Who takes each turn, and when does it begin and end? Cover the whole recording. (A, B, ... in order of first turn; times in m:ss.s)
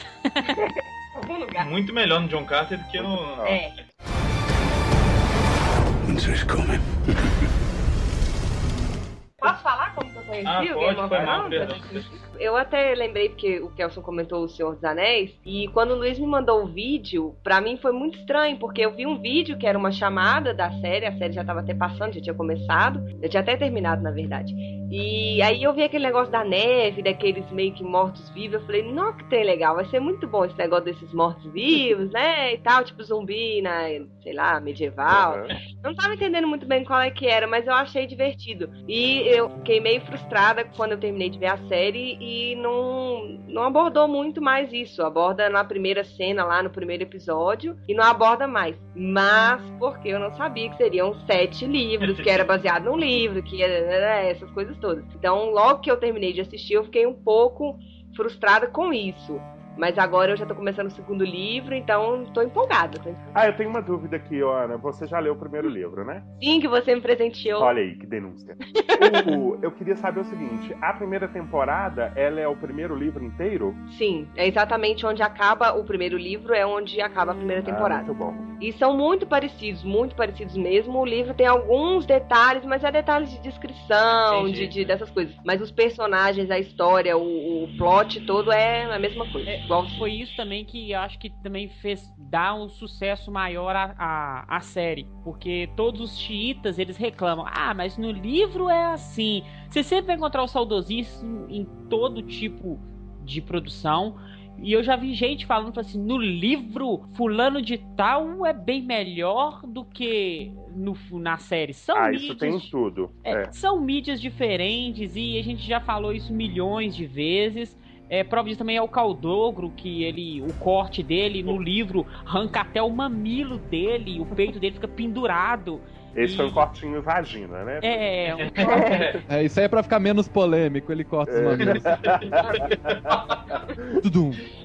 0:00.2-0:00.5 A
0:00.4-0:01.7 B
0:01.6-0:03.9 C
0:03.0-0:03.5 D
0:03.4-0:03.8 B
0:09.4-1:03.3 B
0:10.4-0:12.1 C
0:11.2-0:11.5 D
0:35.1-0:35.5 D
0:52.0-0:52.5 C
1:03.3-1:06.3 D
1:06.4-1:07.7 B
1:07.6-1:13.8 D
1:08.6-1:09.4 B
1:13.9-1:30.1 B
1:17.6-1:18.5 D
1:24.3-1:25.0 C
1:29.5-1:52.7 A
1:52.0-1:53.5 D
1:53.2-2:06.7 A
2:06.2-2:08.1 D
2:07.8-2:08.9 A
2:08.4-2:09.1 C
2:08.6-2:09.2 B
2:09.3-2:12.0 E
2:11.3-2:13.8 D
2:11.6-2:13.4 C
2:12.4-2:12.7 B
2:14.0-2:14.4 E